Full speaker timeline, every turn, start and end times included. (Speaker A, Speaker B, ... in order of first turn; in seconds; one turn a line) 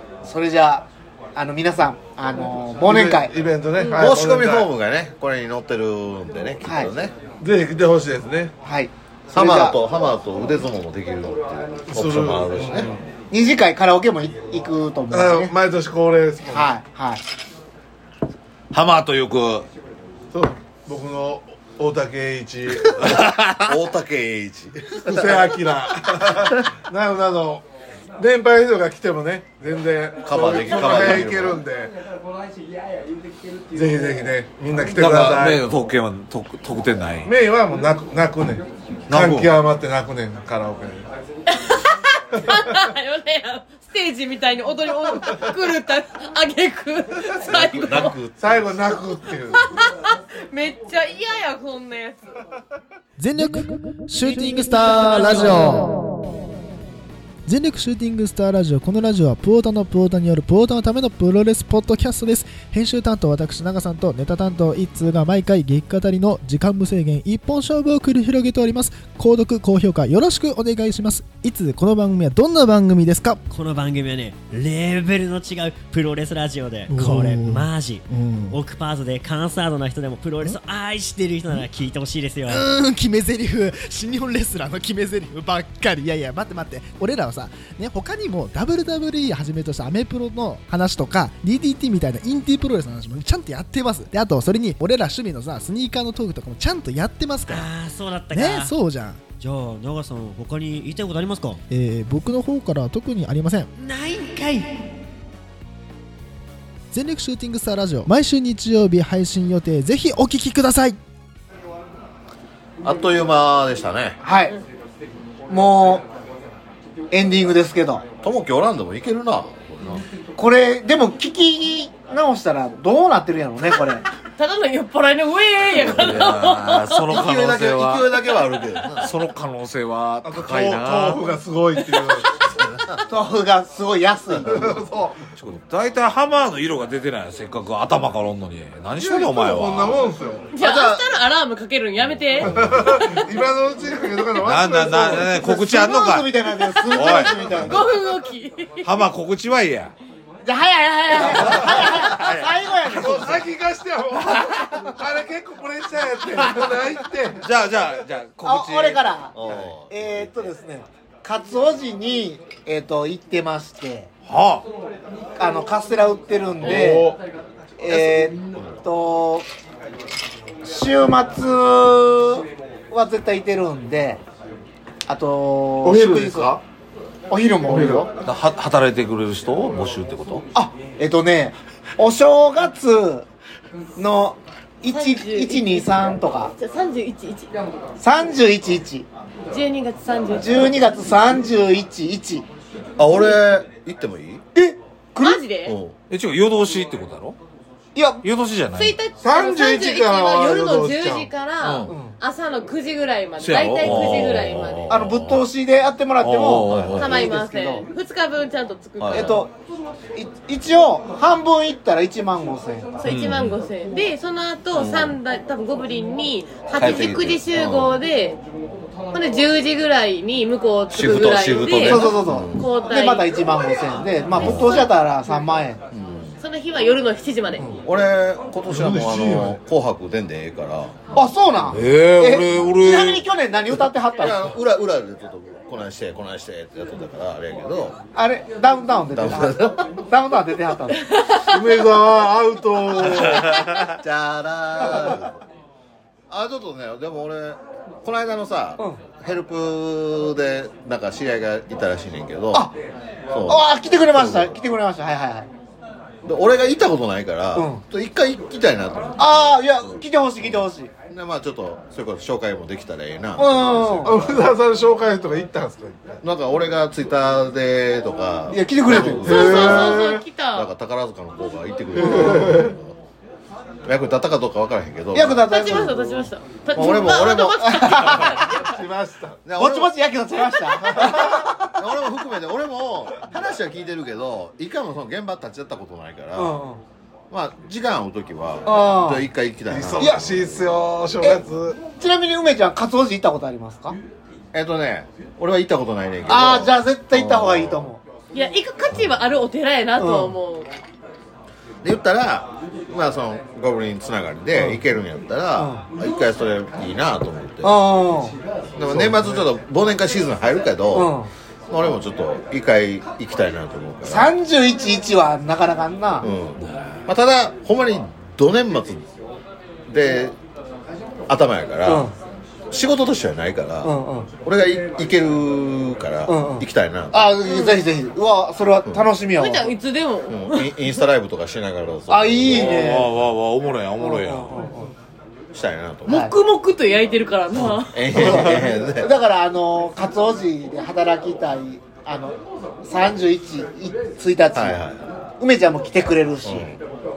Speaker A: 0.2-3.3
Speaker B: 2.8-4.7
Speaker C: 3.8-4.1
Speaker D: 4.0-7.2
Speaker A: 6.7-6.9
Speaker B: 7.4-8.5
Speaker A: 8.6-9.8
Speaker D: 9.3-12.9
Speaker B: 11.9-13.1
Speaker A: 13.3-15.5
Speaker B: 15.1-16.7
Speaker A: 16.5-17.2
Speaker E: 18.7-19.7
Speaker B: 20.3-23.1
Speaker E: 23.0-23.8
Speaker D: 23.6-25.5
Speaker B: 25.1-27.6
Speaker B: 28.2-31.9
Speaker D: 30.2-31.6
Speaker B: 33.7-35.6
Speaker E: 35.0-37.3
Speaker B: 37.3-41.1
Speaker E: 39.1-39.5
Speaker C: 41.5-48.2
Speaker D: 47.5-49.0
Speaker B: 48.4-49.6
Speaker C: 49.6-52.2
Speaker F: 53.2-55.9
Speaker C: 54.2-55.9
Speaker F: 57.5-73.4
Speaker G: 73.5-82.7
Speaker F: 76.9-78.6
Speaker F: 82.4-97.7
Speaker G: 97.5-98.8
Speaker F: 98.3-99.2
Speaker G: 99.4-101.6
Speaker F: 101.7-103.7
Speaker G: 103.8-104.7
Speaker F: 106.9-111.0
Speaker D: 112.8-114.2
Speaker A: 114.2-114.5
Speaker A: 115.5-116.0
Speaker A: 117.1-118.0
Speaker D: 118.2-120.0
Speaker A: 120.4-124.0
Speaker C: 124.4-127.1
Speaker E: 125.7-128.2
Speaker D: 125.8-126.3
Speaker D: 127.1-129.1
Speaker E: 129.0-131.2
Speaker B: 130.2-132.5
Speaker D: 132.6-133.0
Speaker A: 133.1-134.7
Speaker B: 134.5-135.2
Speaker E: 135.4-140.1
Speaker B: 139.0-140.5
Speaker C: 140.6-142.6
Speaker D: 140.6-141.1
Speaker B: 142.5-145.8
Speaker E: 144.4-147.6
Speaker A: 145.5-147.8
Speaker C: 146.8-148.8
Speaker E: 148.8-149.9
Speaker A: 150.4-153.4
Speaker E: 151.2-153.2
Speaker B: 152.9-157.4
Speaker E: 154.2-154.6
Speaker E: 157.4-159.1
Speaker A: 158.4-159.4
Speaker D: 159.3-160.5
Speaker A: 159.9-164.1
Speaker E: 164.2-164.7
Speaker A: 165.4-167.1
Speaker B: 166.6-167.2
Speaker A: 167.8-169.5
Speaker D: 167.9-168.8
Speaker A: 170.6-174.2
Speaker A: 175.1-176.6
Speaker B: 175.8-176.6
Speaker A: 177.3-178.1
Speaker B: 177.7-178.1
Speaker E: 178.2-180.4
Speaker A: 180.5-183.3
Speaker A: 184.0-186.5
Speaker C: 184.9-185.9
Speaker C: 186.6-187.5
Speaker A: 188.0-189.1
Speaker C: 189.5-190.7
Speaker A: 190.4-192.5
Speaker D: 193.0-194.4
Speaker A: 194.6-195.4
Speaker C: 195.2-195.8
Speaker D: 195.7-196.0
Speaker E: 196.1-197.4
Speaker A: 197.9-198.2
Speaker E: 198.2-199.0
Speaker C: 198.8-204.9
Speaker B: 199.2-201.3
Speaker E: 201.6-201.9
Speaker A: 201.9-202.2
Speaker E: 203.4-205.5
Speaker D: 203.8-204.6
Speaker A: 204.9-207.9
Speaker E: 206.2-207.3
Speaker D: 206.7-207.1
Speaker C: 207.0-209.5
Speaker D: 209.0-209.4
Speaker A: 209.1-209.5
Speaker A: 210.2-213.0
Speaker C: 213.0-218.4
Speaker E: 213.1-213.6
Speaker D: 214.7-215.2
Speaker D: 216.8-218.0
Speaker C: 219.1-223.4
Speaker D: 220.9-222.7
Speaker A: 221.7-225.8
Speaker E: 224.4-224.8
Speaker C: 224.5-224.8
Speaker D: 225.9-226.4
Speaker C: 226.4-227.7
Speaker D: 227.8-231.0
Speaker B: 228.7-229.6
Speaker A: 231.1-234.4
Speaker E: 231.7-233.2
Speaker D: 232.6-233.0
Speaker D: 234.2-238.0
Speaker A: 238.2-241.0
Speaker D: 239.1-239.9
Speaker C: 241.1-241.6
Speaker B: 241.4-243.7
Speaker D: 244.0-245.4
Speaker D: 246.3-252.7
Speaker D: 253.3-254.6
Speaker A: 253.5-255.5
Speaker D: 256.2-264.5
Speaker A: 257.6-257.8
Speaker A: 259.2-260.9
Speaker A: 263.4-264.1
Speaker B: 264.1-266.2
Speaker D: 266.2-273.0
Speaker A: 268.5-269.5
Speaker B: 269.3-270.2
Speaker C: 269.3-270.7
Speaker B: 271.9-272.7
Speaker D: 273.9-275.9
Speaker A: 275.1-278.5
Speaker C: 275.4-278.7
Speaker D: 276.7-278.0
Speaker B: 278.5-279.4
Speaker D: 279.4-280.0
Speaker A: 279.6-281.7
Speaker D: 280.9-286.6
Speaker A: 286.4-286.8
Speaker D: 287.3-290.8
Speaker A: 288.7-289.3
Speaker B: 289.7-291.8
Speaker A: 291.9-294.0
Speaker D: 294.5-297.9
Speaker A: 296.3-298.0
Speaker C: 298.3-300.7
Speaker A: 300.0-300.4
Speaker D: 301.8-307.8
Speaker A: 304.5-304.8
Speaker A: 305.6-305.8
Speaker A: 307.6-308.4
Speaker D: 308.8-311.1
Speaker B: 308.9-309.5
Speaker A: 310.9-311.3
Speaker D: 311.7-314.3
Speaker A: 314.1-316.3
Speaker D: 316.2-319.1
Speaker D: 319.9-320.4
Speaker D: 321.3-322.1
Speaker A: 321.9-322.1
Speaker D: 322.7-323.9
Speaker A: 323.8-324.3
Speaker D: 324.4-327.3
Speaker A: 326.3-329.8
Speaker C: 327.4-327.8
Speaker C: 329.4-330.8
Speaker D: 330.3-332.9
Speaker A: 332.1-333.1
Speaker E: 332.5-334.6
Speaker A: 334.0-334.9
Speaker D: 335.5-336.3
Speaker A: 336.1-336.3
Speaker C: 336.1-338.1
Speaker D: 337.9-339.1
Speaker A: 338.1-344.8
Speaker D: 344.5-345.0
Speaker A: 345.4-346.7
Speaker D: 346.4-346.8